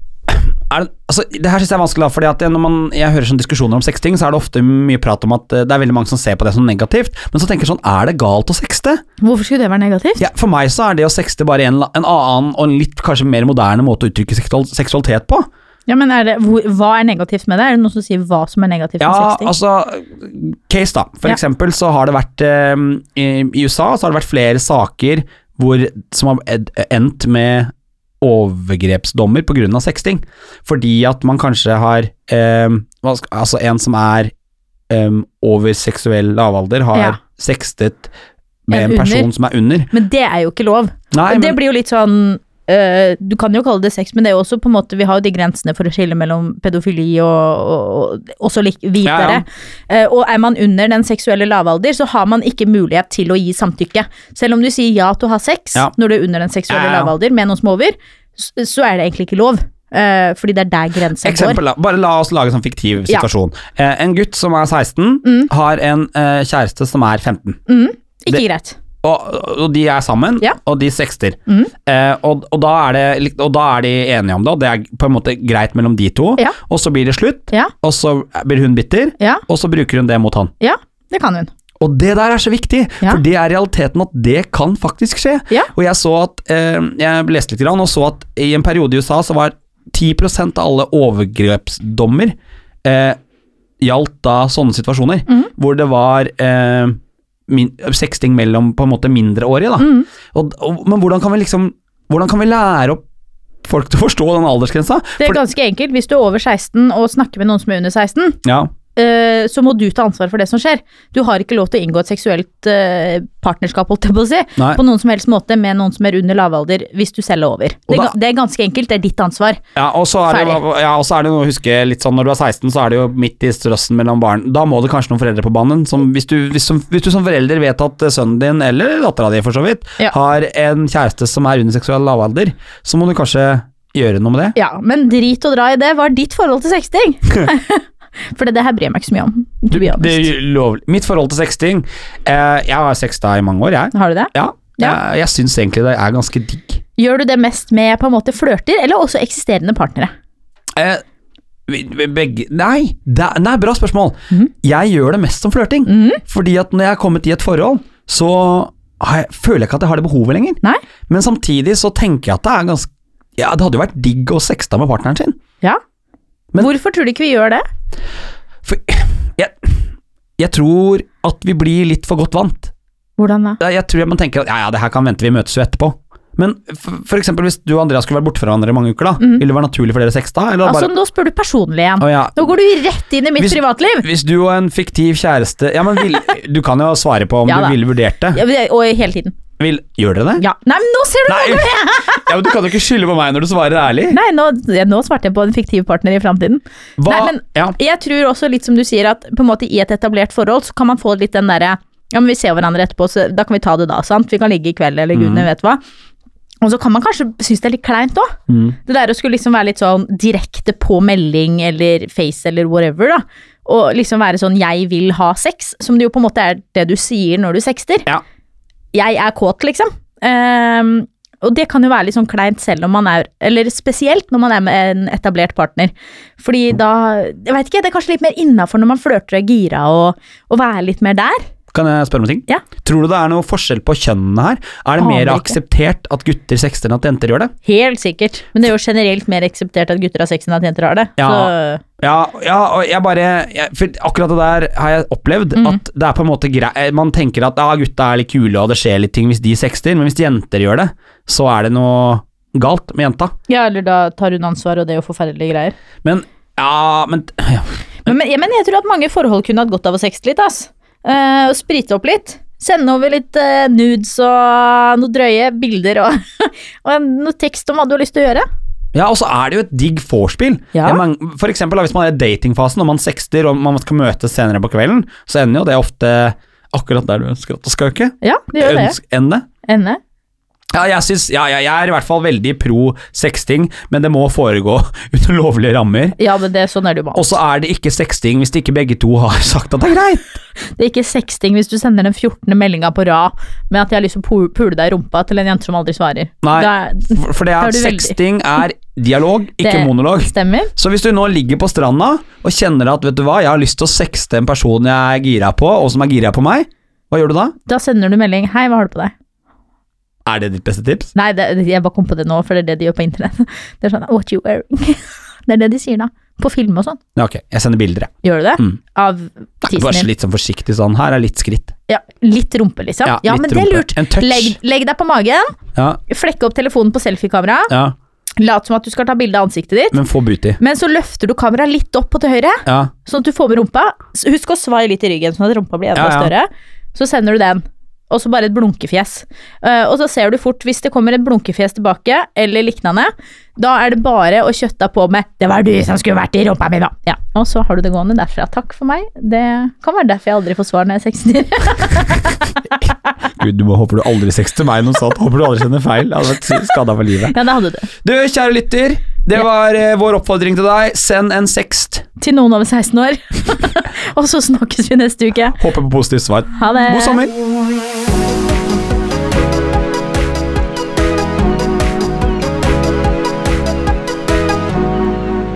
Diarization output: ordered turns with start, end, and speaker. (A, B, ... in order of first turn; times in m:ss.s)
0:00.3-0:09.0 A
0:09.2-0:10.2 B
0:10.2-0:15.5 A
0:15.9-0:19.5 B
0:19.0-0:34.3 A
0:34.9-0:38.1 A
0:38.7-0:39.9 A
0:38.7-0:39.3 B
0:39.9-1:01.6 B
0:41.1-0:41.6 A
0:49.0-0:49.4 A
0:56.7-0:57.1 A
1:01.2-1:07.6 A
1:05.2-1:05.5 B
1:07.7-1:08.8 B
1:09.0-1:20.5 A
1:11.5-1:11.7 B
1:20.6-1:21.5 B
1:21.8-1:33.2 A
1:33.8-1:37.0 A
1:37.5-1:43.0 A
1:39.8-1:40.1 B
1:43.6-1:45.4 A
1:45.2-1:48.4 B
1:48.4-1:48.7 A
1:49.0-1:59.6 B
1:59.8-2:14.6 A
2:00.3-2:00.6 B
2:14.6-2:20.3 B
2:19.7-2:26.8 A
2:23.9-2:25.0 B
2:27.0-2:30.1 B
2:30.8-2:31.0 A
2:31.7-2:45.4 A
2:35.9-2:36.2 B
2:46.6-2:47.6 B
2:48.6-2:49.7 A
2:50.4-2:52.7 A
2:53.2-2:53.6 B
2:53.6-3:00.9 A
2:59.2-2:59.4 B
3:00.6-3:04.0 B
3:02.0-3:02.5 A
3:03.4-3:08.4 A
3:07.5-3:07.8 B
3:08.3-3:09.4 B
3:09.6-3:10.4 A
3:10.4-3:12.4 B
3:11.3-3:14.2 A
3:14.1-3:25.8 B
3:17.0-3:17.8 A
3:25.1-3:25.5 A
3:26.6-3:28.3 B
3:28.5-3:28.8 A
3:28.8-3:38.1 B
3:38.9-3:51.4 B
3:51.7-3:57.5 A
3:55.0-3:55.6 B
3:57.6-4:01.8 B
4:01.2-4:13.3 A
4:05.6-4:05.8 B
4:13.5-4:15.8 B
4:16.0-4:18.1 A
4:18.0-4:28.4 B
4:28.9-4:39.5 A
4:30.7-4:31.0 B
4:38.2-4:39.0 B
4:39.7-4:40.0 B
4:40.8-4:46.2 A
4:46.2-4:47.3 B
4:47.1-4:50.2 A
4:50.8-4:58.2 B
4:56.4-5:07.6 A
4:59.6-5:00.7 B
5:07.7-5:09.1 B
5:10.3-5:11.1 A
5:11.2-5:17.0 B
5:17.2-5:18.8 A
5:18.2-5:20.1 B
5:19.6-5:21.7 A
5:21.9-5:27.7 B
5:23.0-5:24.6 A
5:25.8-5:26.0 A
5:27.7-5:28.0 A
5:28.4-5:30.0 B
5:29.9-5:30.6 A
5:30.6-5:52.6 B
5:32.7-5:32.9 A
5:36.0-5:36.3 A
5:53.4-5:57.4 A
5:57.3-5:57.9 B
5:58.0-6:02.0 A
6:02.2-6:05.6 B
6:05.6-6:07.3 A
6:06.6-6:07.2 B